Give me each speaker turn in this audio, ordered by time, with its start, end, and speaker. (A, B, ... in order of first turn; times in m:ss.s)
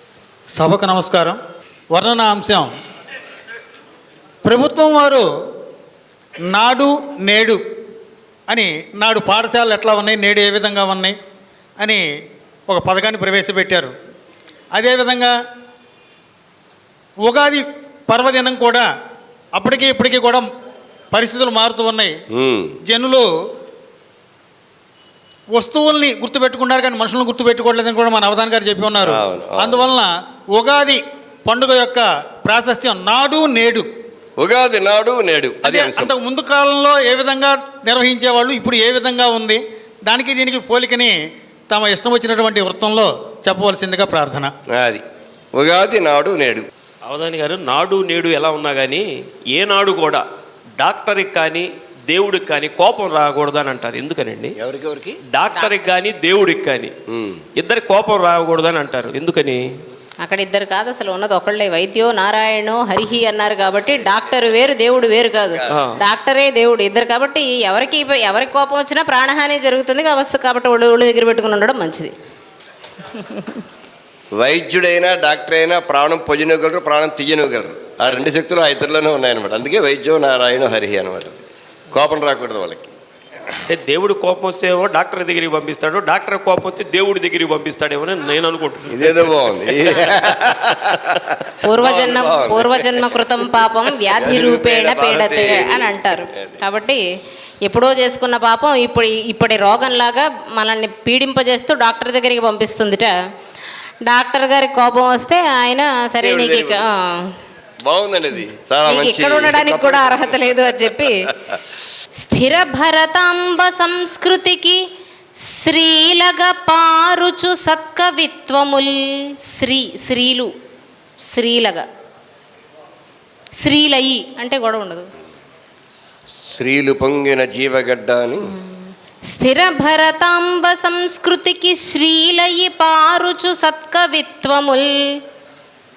0:00.6-0:01.4 A
0:01.9-0:02.7 A
0:04.4-0:05.2 A
0:06.5-0:07.6 A
0:08.5-0:11.2 A
0:12.7-0:13.9 A
0:14.8-0:15.3 A
0:17.2-0:18.9 A
0:19.6-0:20.5 A
0:21.1-0:22.2 A
0:22.3-0:22.7 B
0:22.9-0:23.3 A
0:25.6-0:33.8 A
0:29.0-0:29.8 B
0:34.4-0:36.1 B
0:35.6-0:41.2 A
0:41.7-0:44.5 A
0:44.7-0:45.0 B
0:45.6-0:46.7 B
0:47.1-0:50.2 C
0:50.8-0:54.5 C
0:54.6-0:55.2 B
0:55.3-0:56.9 C
0:57.1-0:57.4 B
0:57.6-0:59.6 C
1:00.2-1:12.1 D
1:05.7-1:06.0 C
1:13.2-1:13.6 D
1:14.3-1:23.0 B
1:23.7-1:30.3 C
1:28.9-1:33.2 B
1:31.7-1:37.0 D
1:34.2-1:36.6 B
1:37.6-1:43.1 D
1:44.1-1:47.3 D
1:46.2-1:46.8 B
1:47.8-1:51.1 B
1:48.9-1:51.3 D
1:52.2-1:54.8 D
1:55.4-2:00.5 D
2:01.3-2:01.8 D
2:03.6-2:05.1 D
2:06.5-2:08.5 B
2:09.3-2:15.0 D